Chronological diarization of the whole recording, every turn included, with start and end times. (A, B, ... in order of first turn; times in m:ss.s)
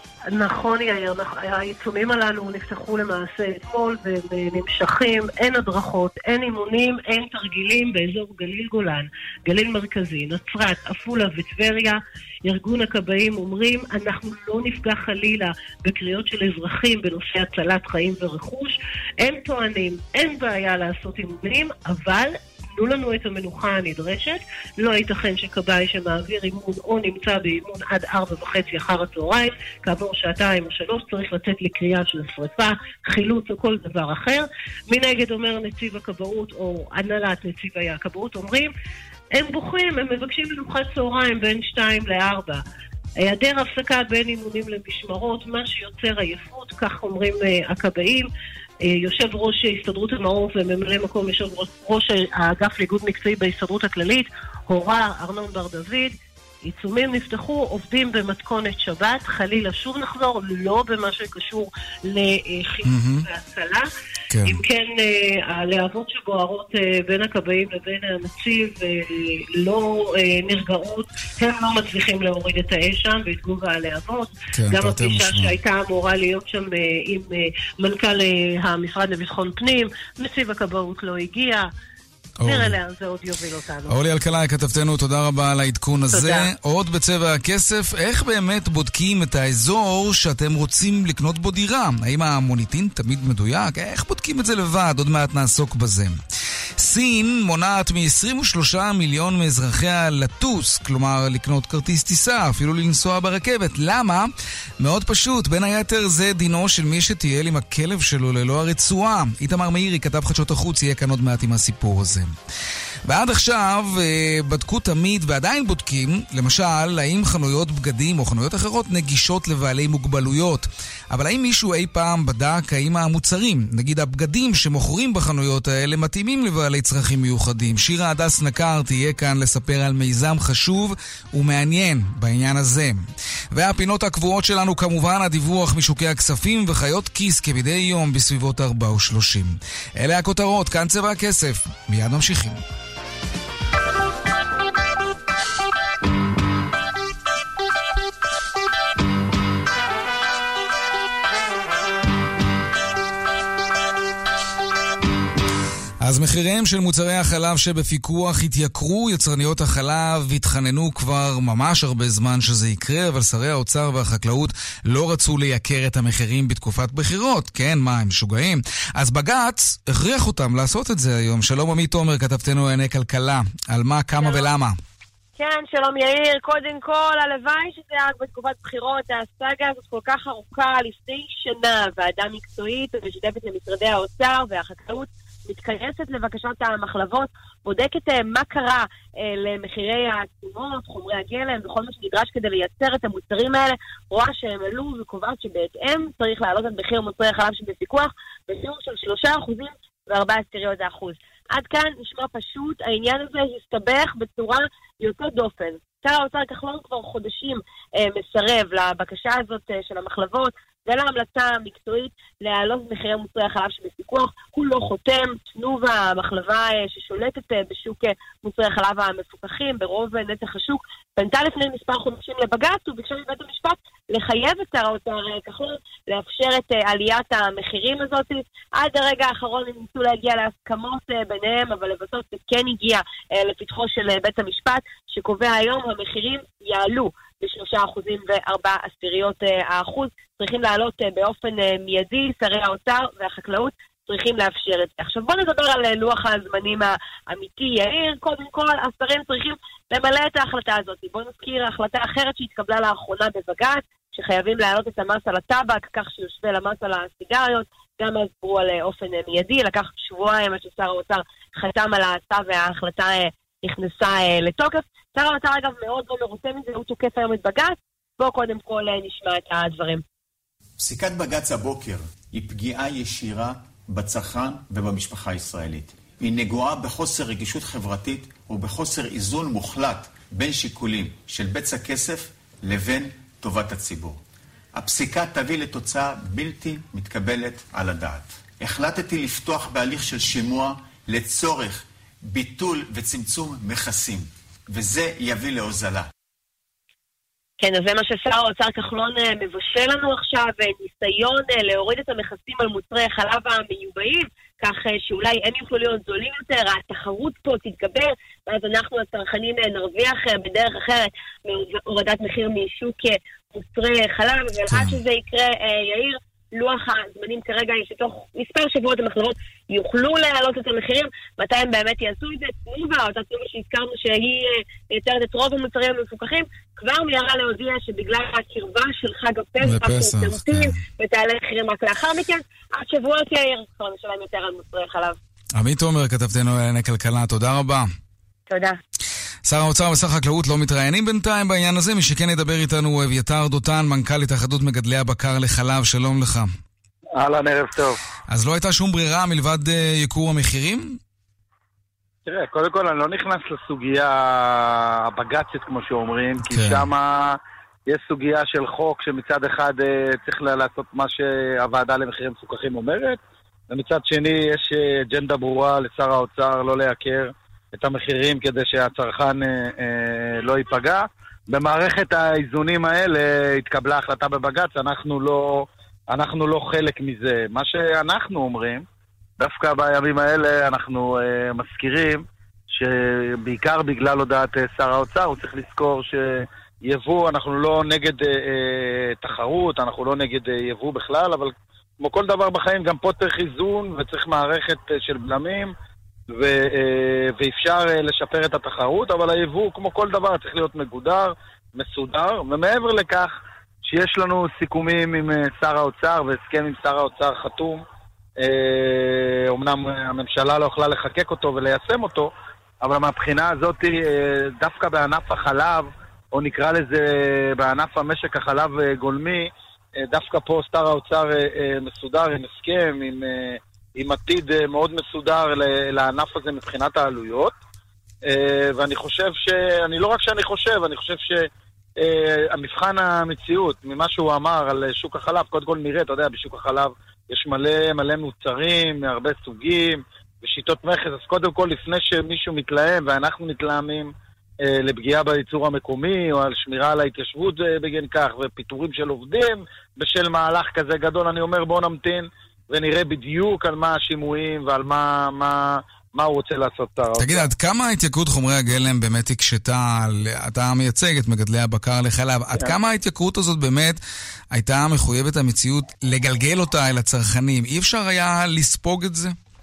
0:00.3-0:38.7 A
0:39.3-0:42.6 A
0:43.2-0:48.3 A
0:48.9-0:56.1 A
0:56.7-1:03.9 A
1:02.8-1:03.2 B
1:04.3-1:04.6 B
1:04.4-1:21.7 A
1:14.5-1:15.6 B
1:22.4-1:22.7 B
1:22.4-1:24.0 A
1:23.9-1:36.2 B
1:26.1-1:26.5 A
1:36.8-1:52.3 B
1:53.0-2:22.6 B
2:36.0-2:54.8 B
2:54.2-2:54.4 C
2:55.4-4:30.0 C
4:30.8-4:44.2 D
4:44.7-4:56.1 D
4:57.6-5:35.2 C
5:14.7-5:15.0 B
5:29.6-5:30.8 B
5:35.6-5:37.9 B
5:38.5-5:38.8 C
5:39.4-5:46.5 B
5:47.2-5:48.0 E
5:48.3-5:51.0 B
5:52.2-5:57.3 E
5:56.4-5:56.9 B
5:57.9-6:03.2 E
6:03.7-6:18.8 E
6:19.4-6:35.7 E
6:36.3-6:43.3 E
6:43.9-6:47.8 E
6:48.4-6:52.3 E
6:52.8-6:59.5 E
7:00.0-7:07.6 E
7:08.3-7:11.4 E
7:12.0-7:24.1 E
7:24.6-7:37.5 E
7:37.2-7:44.0 B
7:44.5-7:49.3 B